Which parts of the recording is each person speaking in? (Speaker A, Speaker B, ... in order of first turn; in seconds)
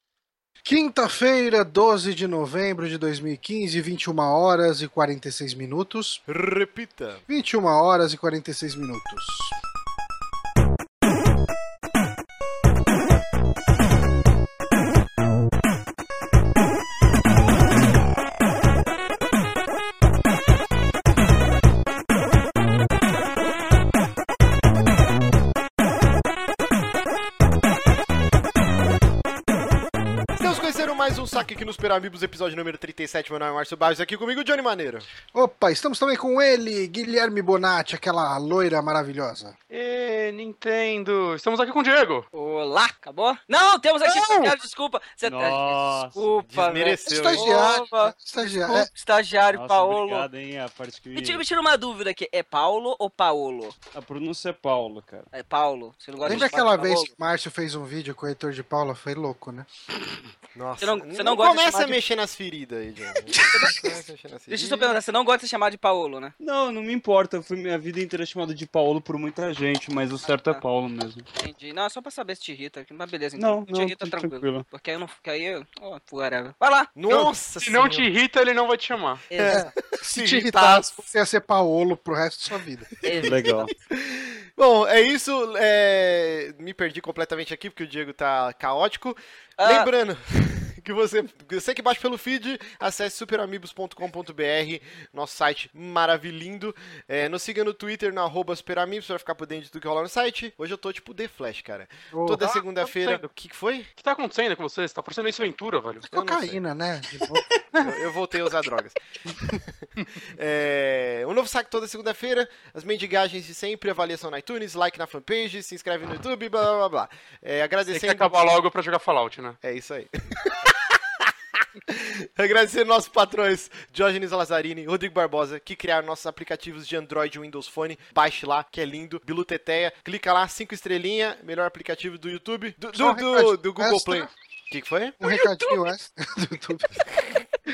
Speaker A: 0.6-6.2, 7.3-9.6, 35.3-39.5, 47.1-48.9, 56.2-59.7, 63.3-64.0, 79.4-82.9, 102.1-102.4, 106.1-108.0, 109.3-109.6, 132.9-134.3, 135.2-137.4
Speaker B: 6.3-7.2, 30.4-35.1, 46.5-47.5, 60.5-65.0, 77.0-78.1, 83.1-103.9, 106.1-106.6, 107.8-109.0, 110.3-118.3, 119.6-135.2
Speaker C: 39.7-42.2, 44.0-44.5, 77.1-79.3, 80.1-81.0, 102.3-103.2, 104.0-106.0, 117.9-119.6
Speaker D: 42.3-50.3, 51.1-53.7, 55.3-57.1, 60.8-62.0, 64.5-66.3, 70.2-70.6, 71.4-76.9, 79.3-79.7, 83.0-83.6, 89.6-89.9
Speaker E: 45.2-46.4, 49.5-51.4, 53.9-55.3, 66.4-71.3, 73.4-74.7, 83.2-83.7